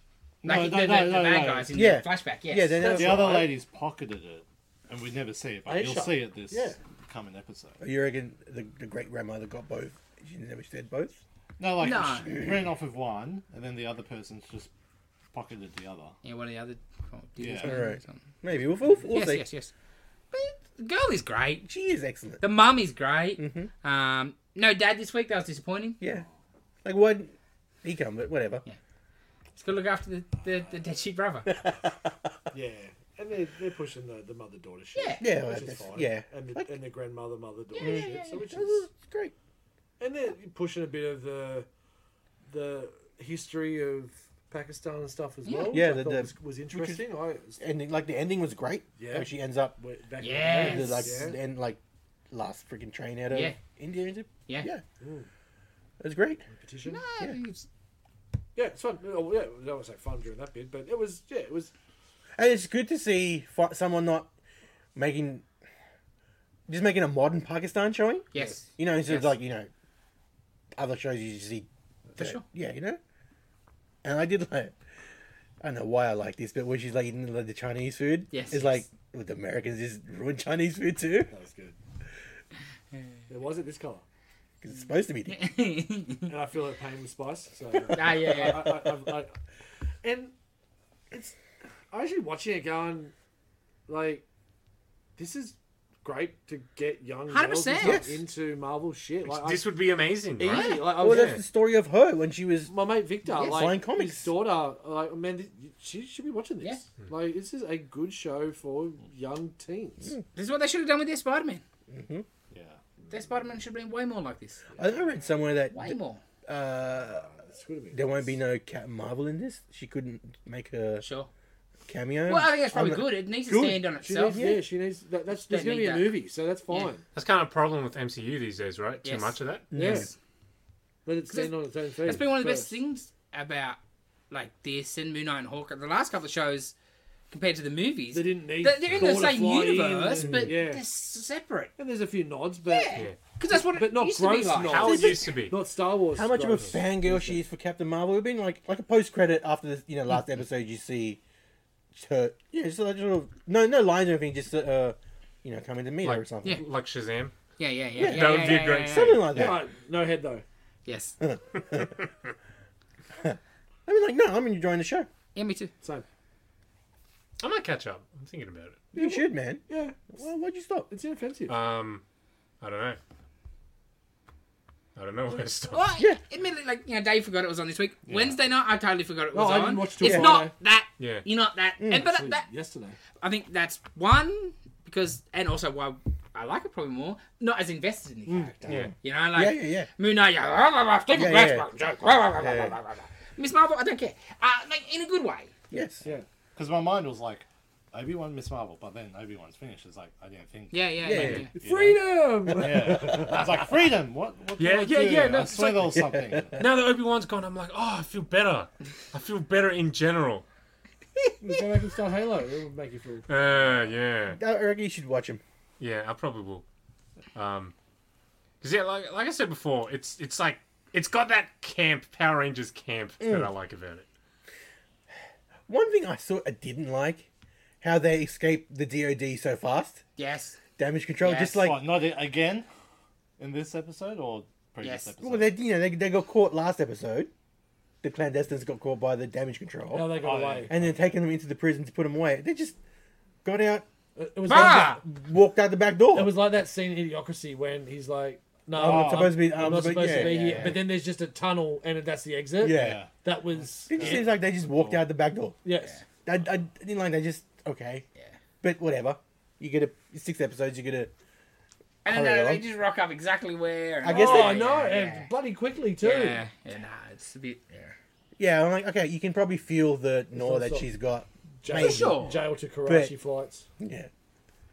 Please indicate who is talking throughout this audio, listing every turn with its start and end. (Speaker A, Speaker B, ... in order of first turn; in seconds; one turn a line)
Speaker A: 0.4-1.8
Speaker B: 0.4-3.0
Speaker C: 1.7-3.5
Speaker D: 2.8-3.5
Speaker A: 2.9-7.8
Speaker D: 5.7-6.8
Speaker C: 7.8-11.2
Speaker A: 11.6-14.7
Speaker B: 11.8-12.3
Speaker A: 15.3-16.1
Speaker B: 16.2-18.2
Speaker A: 17.4-17.9
Speaker C: 17.6-19.4
Speaker B: 19.1-19.7
Speaker B: 20.3-21.6
Speaker C: 21.6-22.4
Speaker B: 22.4-26.0
Speaker C: 23.4-23.7
Speaker C: 26.0-26.2
Speaker C: 26.8-28.6
Speaker B: 29.6-31.5
Speaker C: 31.5-32.3
Speaker D: 32.5-38.9
Speaker B: 34.9-35.2
Speaker C: 35.2-36.7
Speaker B: 37.7-38.4
Speaker C: 37.8-39.3
Speaker D: 40.0-41.7
Speaker D: 42.5-47.6
Speaker B: 45.4-45.8
Speaker C: 45.7-47.0
Speaker C: 47.6-49.8
Speaker D: 49.0-51.4
Speaker B: 50.2-51.2
Speaker C: 50.5-51.8
Speaker C: 52.3-54.8
Speaker B: 53.3-53.5
Speaker D: 55.0-55.3
Speaker C: 56.0-56.5
Speaker D: 56.5-57.0
Speaker B: 56.8-57.7
Speaker D: 58.5-61.7
Speaker C: 62.4-64.3
Speaker C: 64.9-65.4
Speaker C: 66.7-69.7
Speaker B: 68.3-69.3
Speaker C: 70.8-73.0
Speaker B: 72.2-72.4
Speaker C: 74.0-74.7
Speaker C: 75.6-81.3
Speaker B: 78.3-78.8
Speaker D: 81.3-81.8
Speaker D: 83.3-84.0
Speaker C: 84.6-85.4
Speaker B: 85.3-86.3
Speaker D: 86.3-89.4
Speaker B: 87.9-88.9
Speaker D: 90.0-90.3
Speaker D: 91.1-93.1
Speaker D: 93.9-94.2
Speaker D: 95.2-99.7
Speaker B: 97.3-98.0
Speaker C: 97.8-98.2
Speaker E: 99.2-101.4
Speaker D: 100.4-101.4
Speaker B: 100.5-100.8
Speaker C: 101.0-102.7
Speaker D: 102.7-110.1
Speaker B: 103.3-103.7
Speaker C: 103.3-104.3
Speaker B: 110.3-111.6
Speaker C: 111.9-112.2
Speaker A: 112.5-112.8
Speaker B: 113.1-114.6
Speaker D: 114.7-115.0
Speaker C: 114.8-117.3
Speaker B: 115.7-116.2
Speaker D: 117.2-118.3
Speaker C: 117.9-121.0
Speaker B: 121.0-121.3
Speaker C: 121.9-123.2
Speaker B: 122.2-124.4
Speaker D: 123.5-127.0
Speaker C: 124.3-124.6
Speaker B: 125.5-126.1
Speaker E: 127.1-129.6
Speaker B: 129.0-130.1
Speaker C: 129.7-130.1
Speaker D: 129.7-130.1
Speaker D: 131.0-132.7
Speaker B: 131.3-133.8
Speaker B: 134.3-136.7
Speaker B: 137.3-141.7
Speaker D: 138.1-140.8
Speaker E: 138.9-139.3
Speaker C: 140.2-140.5
Speaker D: 141.8-143.0
Speaker B: 142.7-145.1
Speaker D: 143.7-147.4
Speaker E: 144.6-145.6
Speaker C: 144.9-145.3
Speaker C: 146.1-151.2
Speaker C: 151.9-156.6
Speaker E: 156.0-157.3
Speaker B: 157.6-159.3
Speaker C: 158.0-159.6
Speaker E: 158.0-159.2
Speaker D: 159.3-160.4
Speaker B: 160.8-161.2
Speaker C: 161.2-161.9
Speaker C: 163.2-165.1
Speaker B: 165.3-165.7
Speaker E: 167.4-168.8
Speaker D: 168.9-170.1
Speaker C: 168.9-170.9
Speaker D: 170.9-171.6
Speaker E: 171.5-172.0
Speaker E: 172.6-173.0
Speaker E: 174.9-175.8
Speaker B: 175.7-182.5
Speaker A: 178.1-178.4
Speaker D: 179.3-180.5
Speaker C: 180.0-180.5
Speaker E: 181.0-181.2
Speaker C: 181.8-182.1
Speaker D: 181.9-183.0
Speaker B: 183.2-195.7
Speaker D: 188.3-188.5
Speaker C: 188.7-189.9
Speaker C: 191.1-192.8
Speaker C: 195.7-196.1
Speaker A: 196.6-206.6
Speaker B: 200.7-201.5
Speaker C: 201.0-201.5
Speaker D: 201.5-203.6
Speaker C: 202.6-203.4
Speaker E: 204.6-206.0
Speaker C: 206.2-206.4
Speaker E: 206.6-210.4
Speaker D: 211.4-213.3
Speaker E: 213.3-214.4
Speaker C: 214.3-215.4
Speaker E: 215.8-216.6
Speaker E: 217.3-217.7
Speaker E: 218.6-224.1
Speaker C: 223.2-223.5
Speaker C: 225.7-227.3
Speaker C: 227.8-230.0
Speaker B: 230.2-230.6
Speaker C: 230.8-231.8
Speaker B: 231.2-231.6
Speaker A: 231.5-232.7
Speaker A: 233.4-235.5
Speaker B: 234.8-235.1
Speaker C: 235.2-237.3
Speaker C: 238.0-240.1
Speaker D: 239.9-240.7
Speaker A: 240.1-241.0
Speaker C: 240.7-242.8
Speaker C: 243.4-243.8
Speaker D: 244.2-245.0
Speaker B: 244.5-245.0
Speaker C: 244.5-246.3
Speaker D: 246.1-254.3
Speaker A: 248.7-250.8
Speaker C: 248.8-250.8
Speaker B: 250.1-250.7
Speaker C: 252.6-253.0
Speaker A: 252.6-255.0
Speaker C: 253.9-255.6
Speaker D: 255.6-256.0
Speaker C: 256.2-258.0
Speaker C: 258.6-261.1
Speaker B: 262.0-265.3
Speaker C: 262.1-262.6
Speaker C: 264.0-264.7
Speaker D: 264.1-266.4
Speaker B: 266.0-267.9
Speaker C: 268.4-272.3
Speaker D: 270.3-270.9
Speaker D: 271.6-273.7
Speaker B: 271.7-272.4
Speaker C: 272.8-273.1
Speaker C: 273.8-274.1